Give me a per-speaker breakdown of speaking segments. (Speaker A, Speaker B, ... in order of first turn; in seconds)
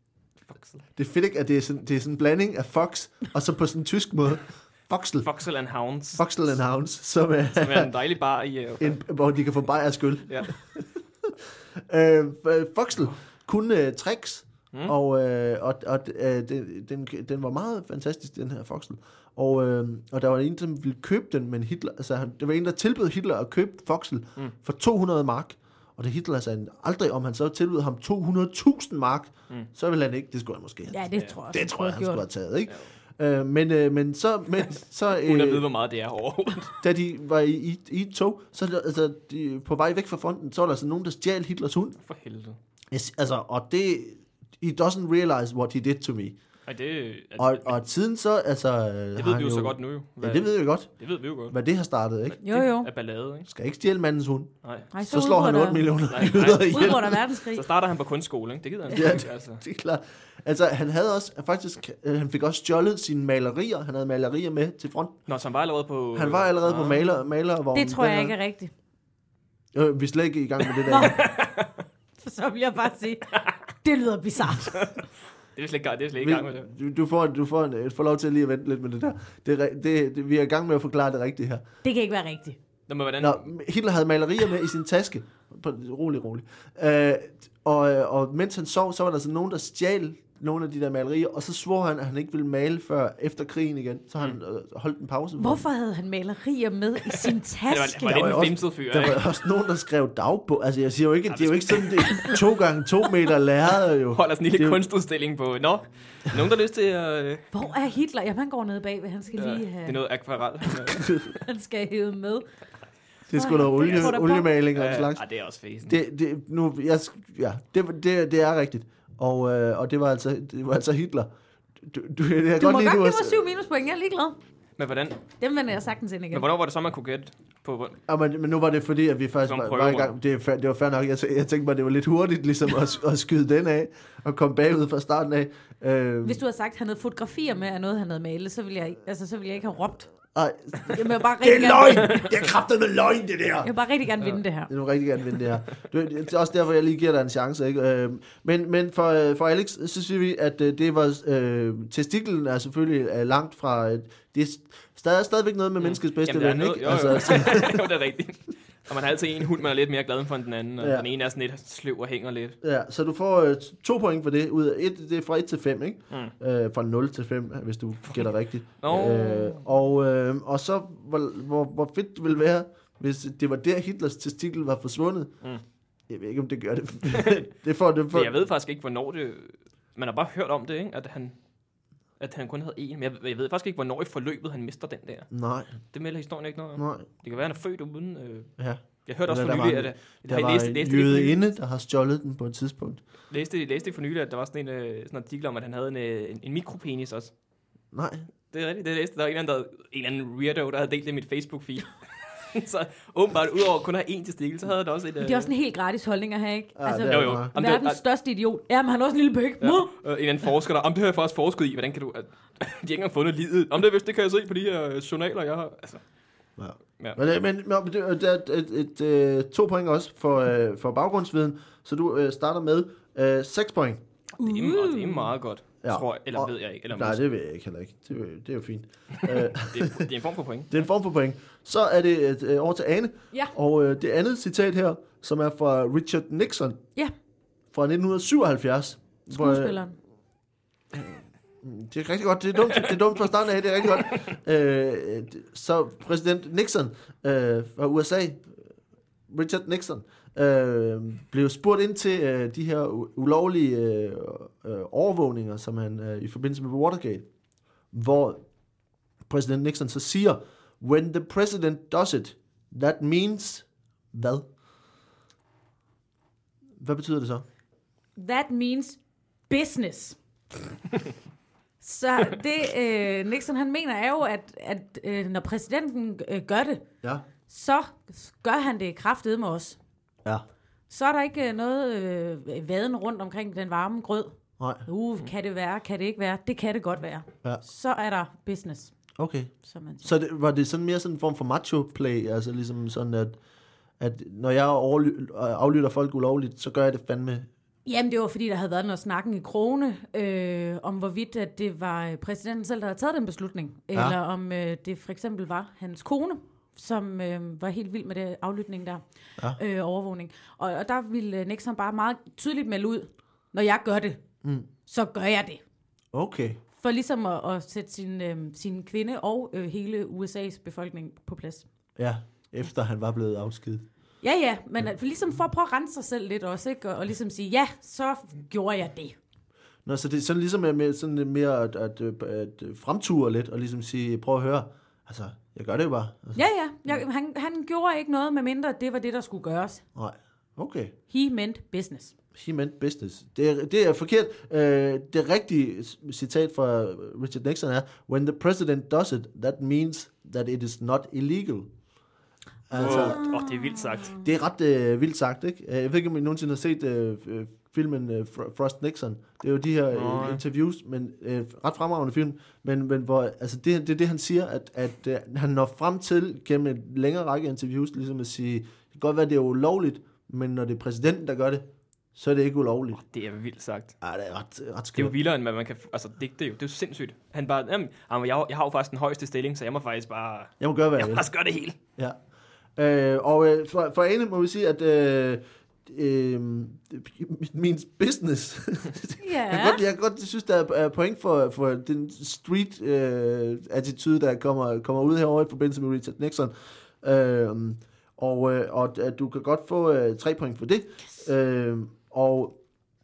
Speaker A: 0.5-0.8, 5.2-6.3, 7.5-9.0, 35.2-36.8, 42.0-42.6, 46.7-47.8, 49.2-51.6, 52.3-53.5, 54.6-54.9, 56.1-59.6, 65.3-67.0, 70.9-71.8, 73.3-73.6, 74.4-76.7, 82.9-83.5, 97.1-99.2, 101.3-102.3, 104.1-107.5, 109.4-111.4, 113.8-114.2, 114.7-116.0, 124.8-125.2, 126.3-128.0, 129.4-130.2, 155.8-162.6, 168.1-169.7, 177.1-177.4, 178.1-181.4, 182.2-185.3, 185.8-188.5, 189.1-191.4, 193.3-197.3, 198.5-205.5, 207.1-208.0, 209.6-216.0, 224.4-227.2, 229.2-230.7, 352.7-354.2, 359.9-360.4, 373.0-373.9, 375.0-381.8
Speaker B: 1.0-5.3, 6.2-7.9, 8.8-11.3, 11.9-35.6, 36.8-42.0, 42.9-46.4, 47.4-50.9, 51.5-52.4, 53.5-57.2, 58.9-65.2, 66.2-68.3, 69.7-71.2, 76.2-81.6, 83.2-95.6, 98.0-104.8, 113.3-115.2, 115.9-121.3, 121.8-123.4, 128.1-136.4, 140.3-143.7, 144.7-157.8, 160.8-161.1, 162.6-175.3, 176.1-178.3, 185.3-185.8, 186.8-187.1, 188.6-193.0, 197.9-198.3, 206.8-207.5, 216.6-224.0, 225.8-230.1, 230.7-236.8, 237.7-239.8, 240.9-248.6, 249.3-257.3, 257.9-258.4, 259.3-264.5, 266.8-267.4, 284.6-284.9, 289.2-293.4, 294.0-297.5, 316.1-316.6, 322.0-323.8, 329.9-336.4, 340.0-340.9, 342.4-351.7, 352.7-353.2, 354.2-373.0, 374.0-375.1, 380.6-381.3, 382.8-402.6
Speaker C: 30.9-32.2, 52.4-52.9, 54.9-57.7, 67.7-68.7, 70.9-71.3, 72.2-74.9, 81.8-82.6, 95.4-98.4, 107.5-110.0, 110.7-112.5, 113.3-114.5, 122.6-124.4, 125.4-126.5, 136.2-140.1, 140.9-142.4, 143.6-144.7, 205.2-209.9, 224.4-225.3, 239.3-240.0, 268.2-269.0, 269.5-270.2, 271.8-276.8, 277.5-279.8, 280.9-284.4, 284.9-288.9, 289.6-290.1, 297.9-314.2, 314.9-315.6, 316.8-321.7, 324.2-329.1, 336.4-339.8, 341.1-342.1, 352.8-354.2, 389.2-389.8